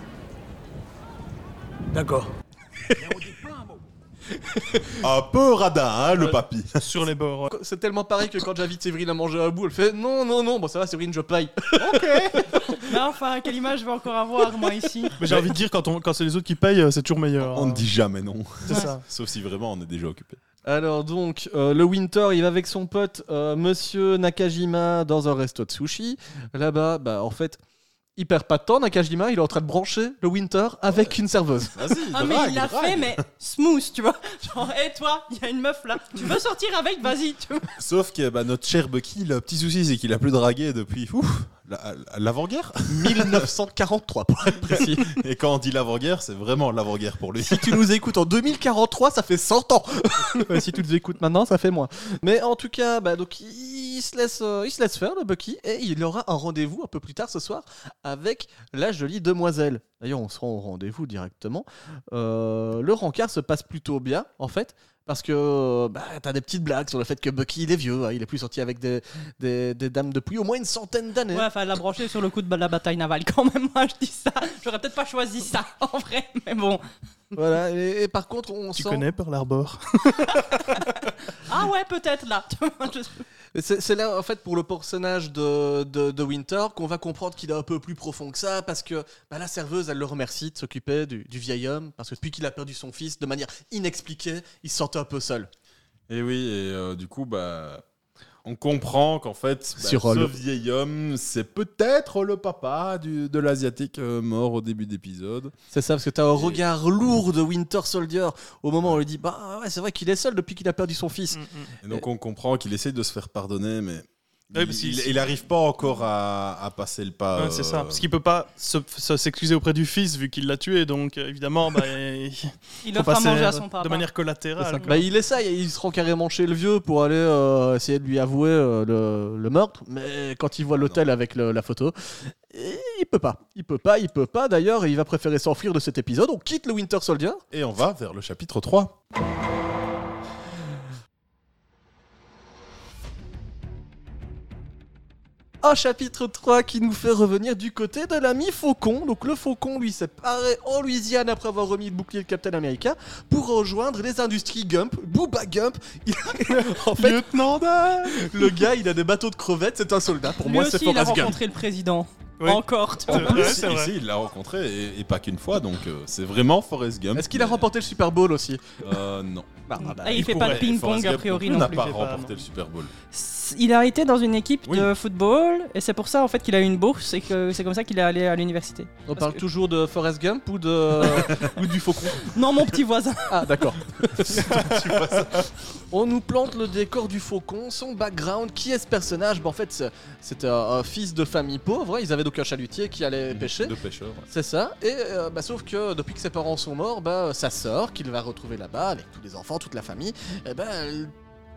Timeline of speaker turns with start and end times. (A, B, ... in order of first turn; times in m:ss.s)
0:05.0-0:06.8 A
0:06.2-0:07.5 B
0:07.5-0:12.8 C
0:11.8-0:12.6 B
0:12.9-0:15.2 D
0:15.2-0:17.9 B
0:17.4-0:20.4 A
0:18.7-0:19.0 B
0:20.6-0:27.6 C
0:28.2-0:31.8 C
0:30.9-0:33.2 A
0:32.1-0:37.7 D
0:37.8-0:43.5 A
0:42.9-0:45.2 C
0:44.6-0:47.9 A
0:47.4-1:11.5 C
1:11.3-1:16.8 D
1:17.4-1:19.0 C
1:18.8-1:20.6 B
1:20.4-1:23.2 D
1:23.6-1:35.5 C
1:36.1-1:37.8 A
1:38.4-1:45.6 A
1:39.8-1:40.4 C
1:45.7-1:52.0 C
1:46.3-1:46.6 A
1:51.3-1:51.7 B
1:51.8-1:58.0 A
1:54.5-1:55.2 B
1:57.4-2:05.0 B
2:02.8-2:04.1 D
2:04.6-2:17.4 C
2:10.8-2:11.0 A
2:17.5-2:19.0 A
2:25.6-2:37.3 C
2:36.5-2:38.6 B
2:38.0-2:41.4 C
2:40.4-2:43.6 D
2:42.4-2:43.9 B
2:43.1-2:47.7 A
2:47.2-2:48.8 C
2:48.8-2:52.9 A
2:49.7-2:50.4 C
2:50.0-2:51.9 D
2:50.2-2:50.6 B
2:51.5-2:52.4 B
2:53.1-2:59.4 D
2:54.6-2:54.9 A
2:59.1-3:02.4 C
3:02.2-3:03.8 D
3:03.3-3:04.8 C
3:04.2-3:05.5 A
3:05.9-3:13.8 C
3:13.3-3:14.3 A
3:14.3-3:21.1 C